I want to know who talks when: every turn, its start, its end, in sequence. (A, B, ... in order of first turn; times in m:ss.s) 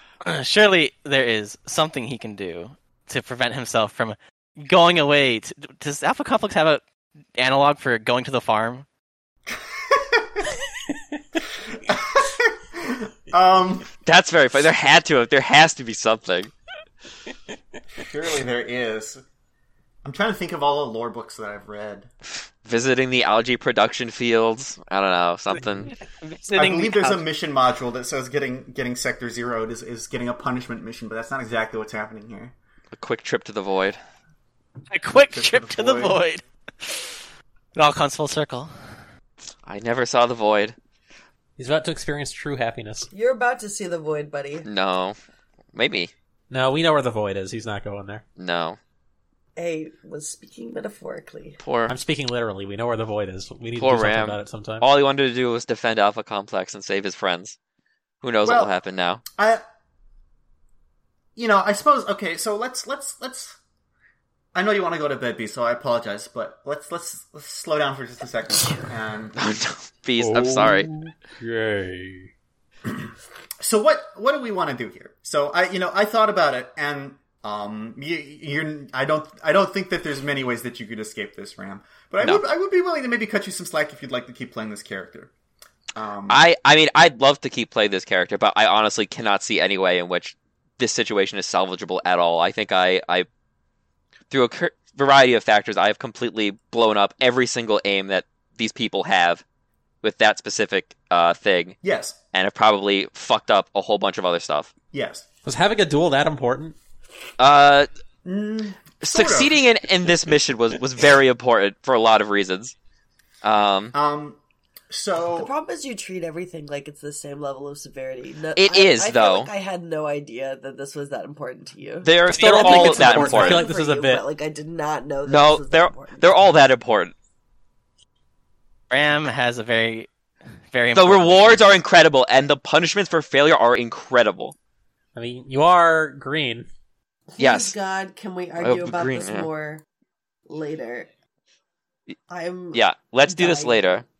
0:00.2-0:06.8 A
0:07.4-0:08.9 A
0:09.5-0:10.4 B
0:11.6-0:13.9 B
0:14.0-0:16.5 C
0:17.9-0:19.2 B
0:20.0-0:22.1 B
0:22.6-0:25.9 C
0:25.8-0:27.2 A
0:26.5-0:32.5 B
0:32.9-0:34.0 C
0:34.9-0:37.2 A
0:35.1-0:36.2 B
0:37.7-0:38.7 A
0:39.6-0:40.7 C
0:41.6-0:43.1 D
0:43.1-0:44.7 E
0:44.6-0:45.2 C
0:45.7-0:46.1 C
0:46.5-0:48.2 D
0:48.4-0:48.8 C
0:49.6-0:51.6 E
0:51.6-0:52.0 C
0:51.9-0:54.9 D
0:53.8-0:57.6 C
0:58.2-0:59.2 C
0:58.4-0:58.7 B
0:59.4-0:59.6 B
1:01.4-1:03.6 B
1:04.6-1:09.4 B
1:09.4-1:10.9 C
1:10.2-1:12.3 D
1:13.6-1:25.3 B
1:26.0-1:26.4 B
1:26.3-1:33.3 C
1:34.3-1:39.4 C
1:40.0-1:41.8 C
1:41.8-1:42.2 B
1:42.3-1:44.7 C
1:44.9-1:45.3 B
1:45.4-1:46.8 D
1:47.4-1:47.9 C
1:48.2-1:49.7 B
1:49.0-1:52.7 C
1:53.4-1:53.9 C
1:53.9-1:54.4 B
1:54.9-1:55.5 B
1:55.3-2:06.3 E
1:58.6-1:59.5 C
2:02.0-2:03.6 C
2:02.3-2:04.2 D
2:02.4-2:02.9 A
2:05.3-2:07.1 C
2:08.9-2:10.1 A
2:10.7-2:11.7 A
2:11.0-2:14.6 C
2:15.1-2:16.7 D
2:17.4-2:19.8 E
2:17.4-2:17.7 C
2:18.6-2:19.5 C
2:20.5-2:21.1 E
2:22.3-2:24.0 E
2:22.7-2:24.0 C